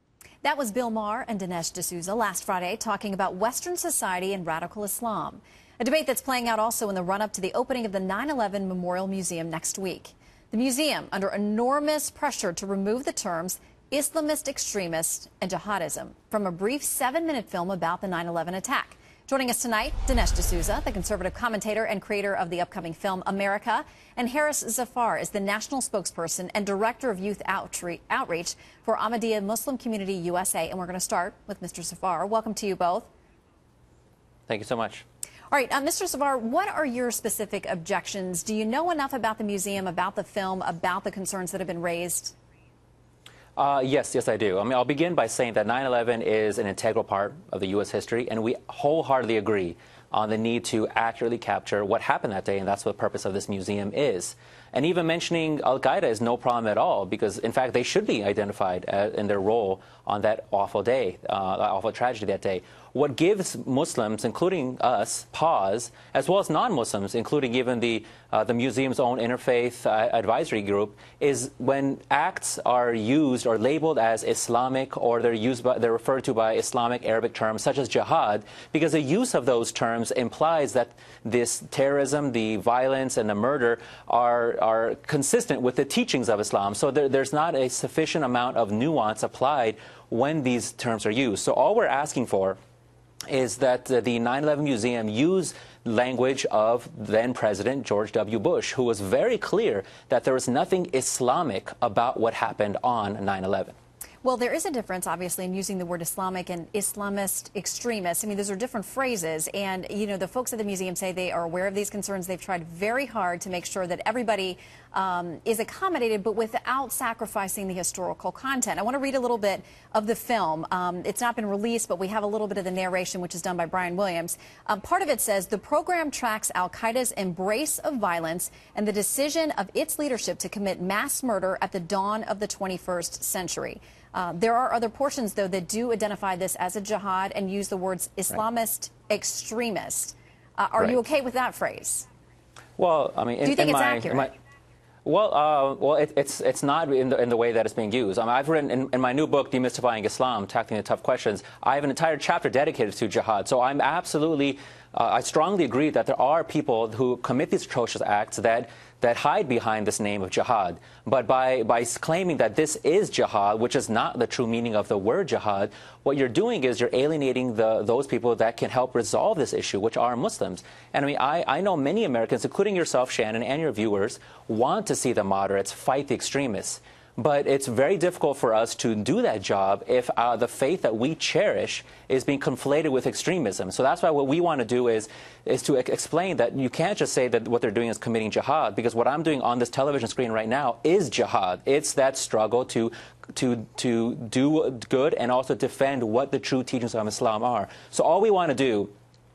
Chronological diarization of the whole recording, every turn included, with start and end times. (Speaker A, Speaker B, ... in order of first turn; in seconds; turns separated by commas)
Speaker A: 0.4-33.1, Speaker B: 34.5-35.0, Speaker A: 35.5-42.4, Speaker B: 43.6-92.6, Speaker B: 93.3-103.8, Speaker A: 104.2-142.1, Speaker B: 142.8-144.3, Speaker A: 143.4-144.3, Speaker B: 145.1-198.9